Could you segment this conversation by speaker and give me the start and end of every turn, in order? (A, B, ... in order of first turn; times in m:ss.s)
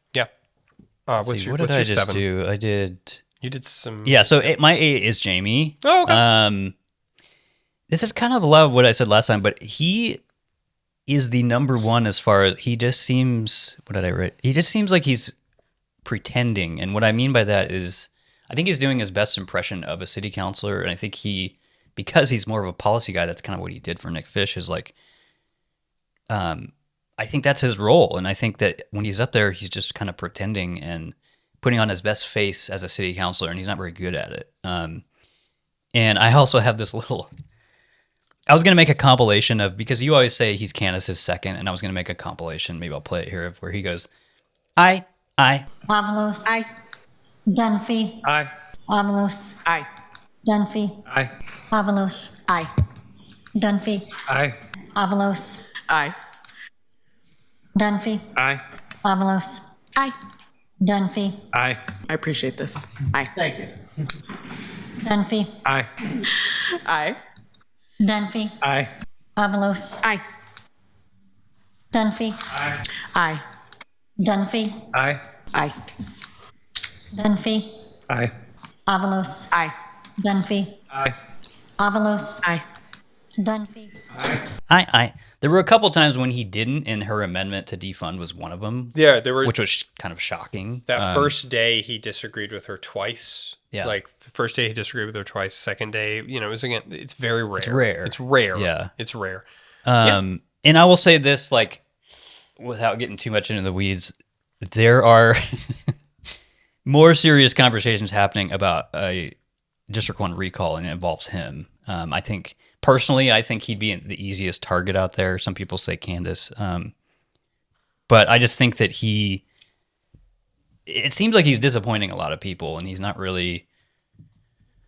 0:01.1-0:02.2 A
0:01.2-0:03.2 B
0:03.4-0:04.5 A
0:04.0-0:06.7 B
0:05.8-0:06.2 A
0:07.9-0:10.2 B
0:11.1-0:15.3 B
0:16.0-0:24.9 B
0:26.3-0:35.0 B
0:35.9-0:37.3 B
0:38.5-0:44.1 B
0:44.8-0:45.7 B
0:45.9-0:46.6 C
0:47.5-0:48.2 C
0:48.2-0:48.5 D
0:48.9-0:49.6 C
0:50.4-0:51.0 C
0:51.7-0:52.4 C
0:53.6-0:54.2 C
0:54.3-0:54.6 D
0:55.0-0:55.7 C
0:55.9-0:56.2 E
0:57.8-0:58.3 C
0:58.4-0:58.6 D
0:59.0-0:59.6 C
1:00.8-1:01.4 C
1:01.5-1:01.9 D
1:02.1-1:03.4 E
1:05.0-1:05.6 C
1:05.6-1:05.9 D
1:06.8-1:07.2 E
1:08.0-1:08.6 C
1:08.6-1:08.9 D
1:09.4-1:10.0 C
1:11.9-1:12.4 C
1:12.5-1:12.8 D
1:13.1-1:13.4 E
1:14.2-1:14.8 C
1:14.9-1:15.2 D
1:17.1-1:17.8 C
1:18.1-1:18.3 D
1:18.9-1:19.5 C
1:20.2-1:20.8 C
1:21.8-1:22.5 C
1:23.4-1:24.0 C
1:24.2-1:24.4 D
1:24.7-1:31.4 B
1:29.0-1:29.5 A
1:30.9-1:39.5 A
1:37.6-1:38.9 B
1:39.9-1:41.8 B
1:42.6-1:45.9 B
1:46.9-1:49.3 B
1:49.9-1:56.9 B
1:58.1-1:59.4 B
2:00.9-2:03.6 B